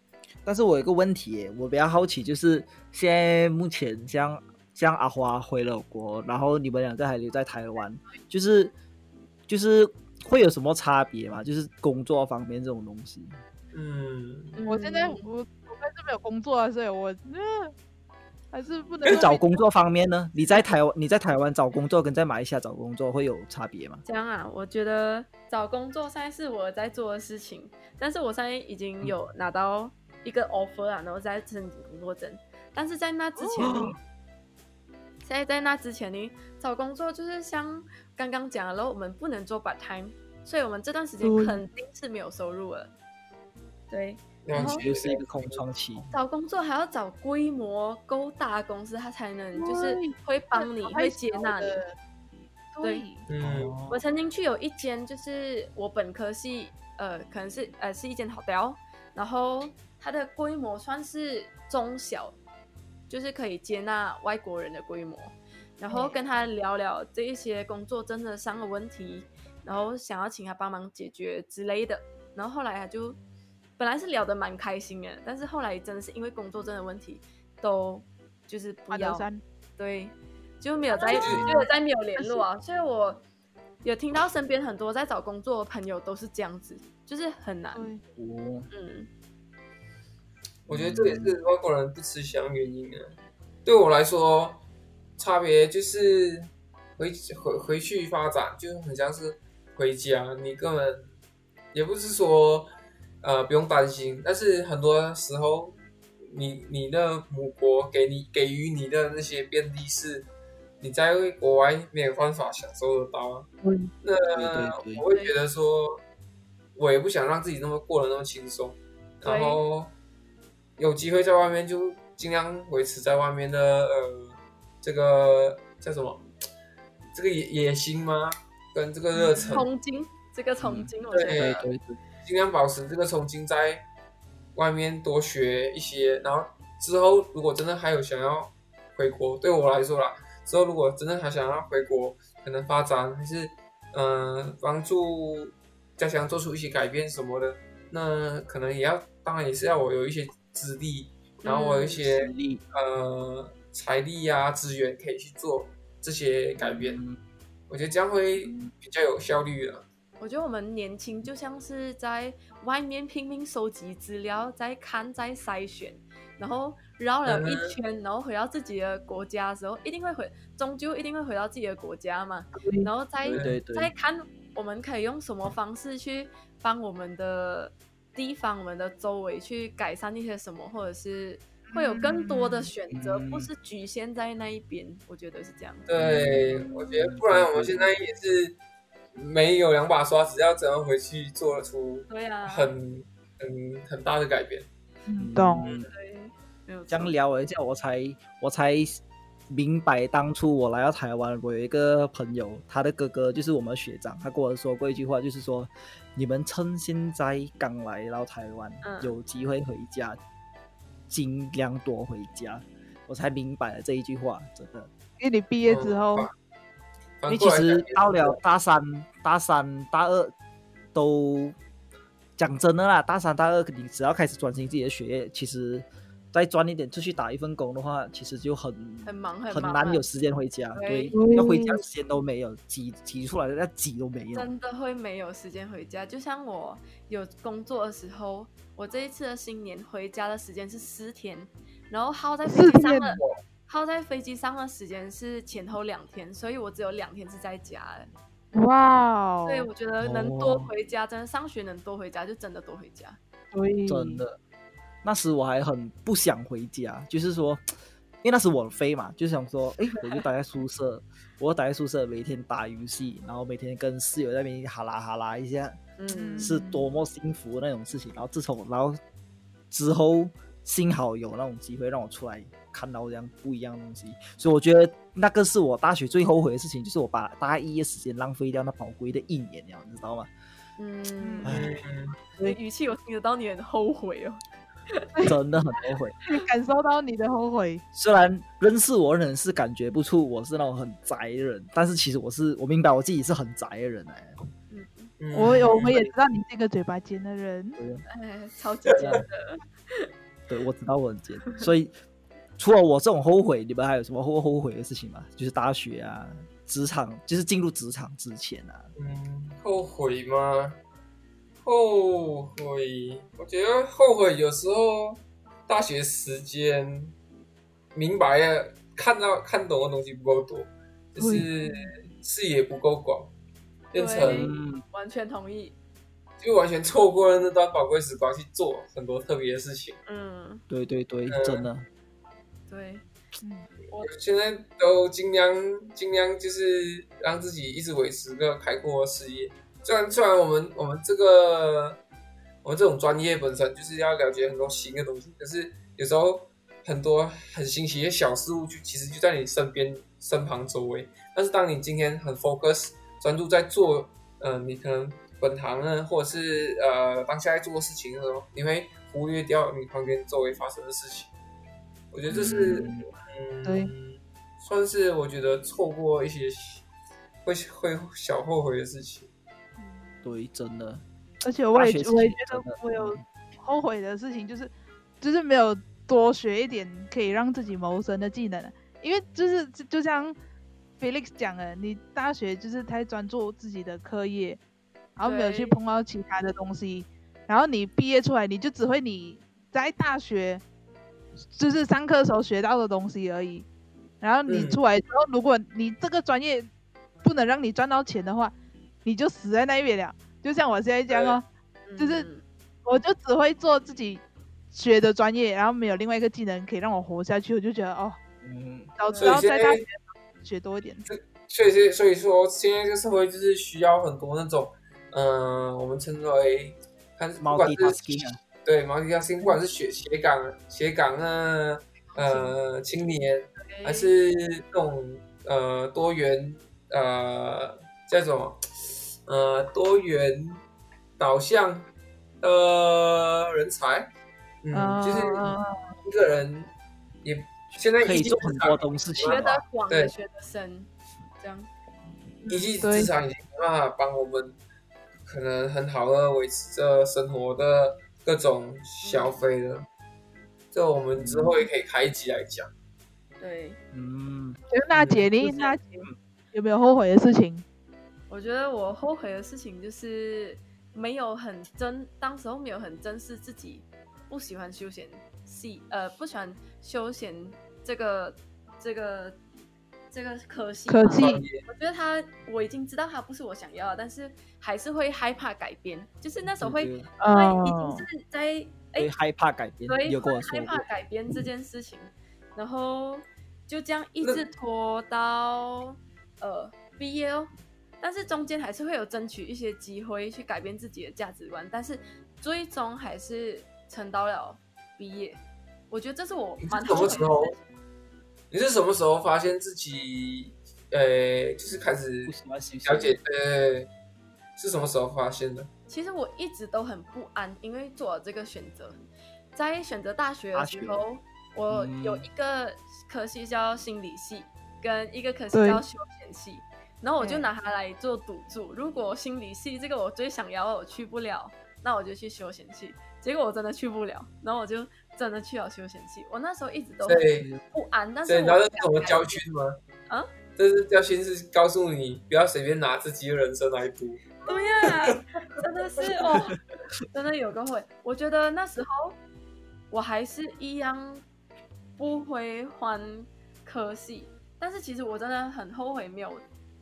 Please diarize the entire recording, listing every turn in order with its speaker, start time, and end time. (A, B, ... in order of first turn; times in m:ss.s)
0:00.4-0:08.7 A
0:09.5-0:13.3 A
0:13.7-0:14.6 B
0:14.6-0:15.3 C
0:14.7-0:17.7 D
0:18.5-0:19.4 D
0:19.0-0:19.3 B
0:19.1-0:24.0 A
0:24.0-0:33.9 C
0:33.4-0:33.9 D
0:33.6-0:34.0 A
0:35.2-0:42.9 C
0:41.2-0:41.6 D
0:43.9-0:44.8 C
0:44.4-0:45.6 B
0:44.5-0:46.1 A
0:46.1-0:51.8 C
0:49.6-0:52.0 D
0:52.7-0:53.3 D
0:53.3-0:53.8 B
0:53.4-0:54.0 A
0:53.9-1:02.4 C
1:03.1-1:13.2 C
1:05.9-1:06.2 D
1:13.8-1:23.2 C
1:18.9-1:19.4 D
1:20.9-1:21.2 D
1:21.1-1:21.5 B
1:21.1-1:21.7 A
1:22.2-1:22.5 D
1:23.8-1:27.9 C
1:27.7-1:28.0 D
1:28.2-1:28.7 A
1:28.7-1:29.1 C
1:30.7-1:31.4 A
1:30.7-1:34.6 B
1:35.2-1:41.1 B
1:41.7-1:45.8 B
1:46.3-1:50.3 B
1:50.8-1:53.5 B
1:53.6-1:53.9 D
1:54.0-1:56.0 B
1:54.3-1:55.0 A
1:55.1-1:55.4 C
1:56.8-1:59.9 B
1:59.2-1:59.6 C
2:00.8-2:06.2 B
2:07.1-2:09.7 B
2:09.1-2:09.6 D
2:09.5-2:11.7 C
2:10.6-2:12.0 A
2:11.1-2:11.6 B
2:12.2-2:13.8 B
2:14.6-2:37.0 B
2:31.4-2:32.0 C
2:32.1-2:32.6 A
2:36.6-2:37.2 A
2:37.7-2:39.8 B
2:38.5-2:38.7 A
2:40.2-3:05.8 C
2:47.3-2:47.8 B
2:52.6-2:52.9 D
2:53.3-2:53.6 B
2:53.3-2:53.9 A
3:01.7-3:02.7 D
3:02.9-3:03.5 A
3:05.9-3:08.6 B
3:06.0-3:07.9 A
3:09.2-3:14.7 B
3:12.1-3:12.7 C
3:15.1-3:15.7 D
3:15.2-3:15.9 A
3:15.6-3:17.1 C
3:16.9-3:30.2 A
3:28.8-3:29.2 C
3:31.1-3:34.9 A
3:35.2-3:36.3 D
3:35.7-3:36.3 B
3:37.2-3:38.4 B
3:37.3-3:40.3 A
3:40.9-3:41.6 A
3:42.4-3:54.5 A
3:49.0-3:50.1 C
3:50.7-3:51.3 C
3:51.1-3:51.8 D
3:54.3-4:08.1 C
4:02.4-4:03.2 D
4:08.5-4:09.7 D
4:09.4-4:13.2 C
4:10.0-4:10.7 A
4:13.5-4:14.2 D
4:13.9-4:14.4 A
4:15.0-4:17.6 A
4:18.2-4:25.8 A
4:26.0-4:26.6 C
4:26.1-4:26.9 D
4:26.4-4:29.0 A
4:29.7-4:40.3 A
4:40.8-4:41.6 C
4:41.2-4:41.7 D
4:41.4-4:41.7 A
4:41.4-4:42.2 B
4:42.4-4:45.1 C
4:45.2-4:46.2 A
4:46.3-4:47.8 D
4:47.9-4:54.4 A
4:54.7-4:55.1 C
4:55.2-4:56.0 B
4:55.3-4:57.8 D
4:55.4-4:56.1 A
4:57.8-4:58.0 A
4:58.1-5:00.1 C
4:59.0-4:59.2 A
5:00.5-5:01.9 A
5:02.6-5:08.9 A
5:09.0-5:10.8 B
5:11.6-5:17.1 B
5:17.9-5:23.3 B
5:21.2-5:22.0 D
5:23.9-5:24.5 B
5:23.9-5:25.8 C
5:24.2-5:24.8 A
5:26.4-5:30.0 B
5:30.1-5:30.6 C
5:30.7-5:31.9 A
5:31.3-5:31.7 B
5:32.7-5:33.1 C
5:33.4-5:33.7 D
5:34.0-5:42.0 B
5:42.6-6:01.3 B
6:02.1-6:06.9 B
6:02.3-6:03.1 A
6:02.4-6:02.9 D
6:03.6-6:03.9 D
6:07.4-6:09.3 B
6:09.8-6:10.2 D
6:10.2-6:11.0 A
6:11.4-6:20.4 D
6:11.7-6:13.2 A
6:21.0-6:24.6 D
6:25.2-6:30.6 D
6:25.2-6:25.8 C
6:31.6-6:33.7 D
6:34.2-6:36.7 D
6:34.5-6:34.8 B
6:37.2-6:38.5 D
6:39.0-6:41.4 D
6:41.1-6:41.4 B
6:41.9-6:42.4 C
6:42.0-6:42.3 D
6:42.8-6:48.2 D
6:48.4-6:48.9 A
6:49.0-6:51.1 D
6:49.0-6:49.4 C
6:49.2-6:49.8 B
6:51.0-7:10.6 B
6:57.4-6:58.4 A
7:02.1-7:02.6 C
7:03.6-7:04.1 C
7:11.2-7:14.1 B
7:14.6-7:16.7 B
7:14.7-7:15.8 D
7:17.2-7:20.1 B
7:18.0-7:19.6 A
7:19.2-7:21.7 C
7:22.4-7:23.1 D
7:22.5-7:24.6 B
7:25.3-7:29.9 B
7:29.0-7:29.4 C
7:30.7-7:32.7 B
7:31.2-7:31.7 A
7:33.4-7:33.8 C
7:33.9-7:34.6 A
7:34.7-7:37.6 D
7:34.9-7:35.3 B
7:35.4-7:36.2 A
7:38.3-7:49.4 C
7:50.1-7:59.1 C
7:50.9-7:51.4 D
7:51.2-7:51.6 B
7:56.6-7:57.1 A
7:57.2-7:58.1 D
7:59.0-8:00.8 A
7:59.9-8:15.4 C
8:15.9-8:17.6 C
8:16.6-8:17.6 B
8:18.5-8:22.3 B
8:22.3-8:23.2 A
8:22.8-8:23.9 B
8:24.6-8:25.7 B
8:25.9-8:29.0 C
8:29.6-8:49.4 C
8:30.5-8:31.0 A
8:31.7-8:32.3 A
8:35.5-8:35.8 D
8:37.2-8:37.5 D
8:47.0-8:47.5 B
8:47.4-8:47.6 A
8:48.2-8:49.8 B
8:50.6-8:55.0 B
8:54.4-8:56.6 C
8:57.1-8:59.2 C
8:59.9-9:01.2 C
9:02.0-9:06.4 C